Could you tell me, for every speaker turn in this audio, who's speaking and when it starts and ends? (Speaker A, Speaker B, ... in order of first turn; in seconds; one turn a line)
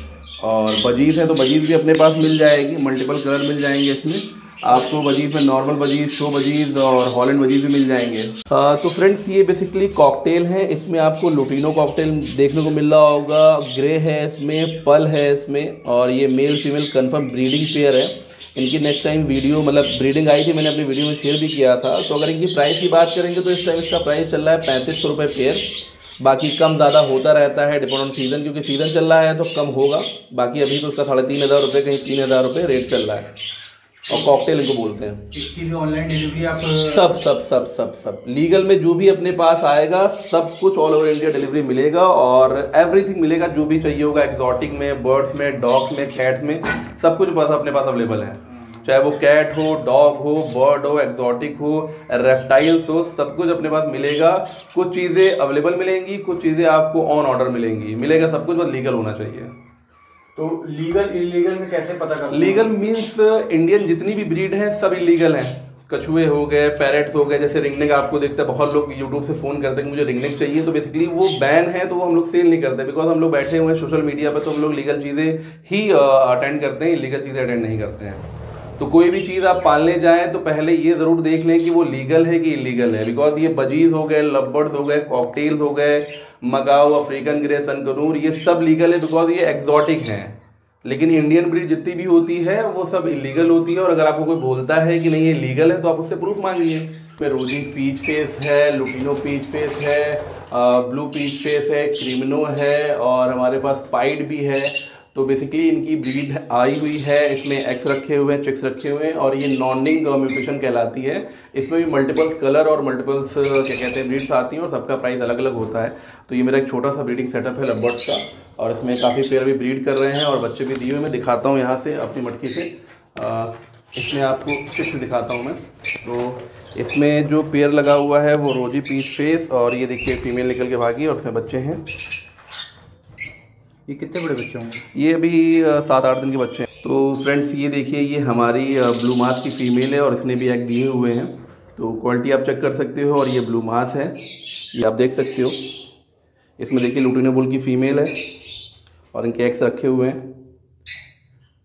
Speaker A: 0.4-25.7
Speaker A: 26.2-33.3
Speaker A: 34.1-35.3
Speaker B: 35.3-37.0
Speaker A: 36.9-59.5
Speaker B: 60.4-62.7
Speaker A: 62.3-78.2
Speaker A: 78.8-131.9
Speaker B: 133.9-134.8
Speaker A: 134.9-144.2
Speaker A: 144.7-145.7
Speaker A: 146.6-148.3
Speaker A: 149.1-150.3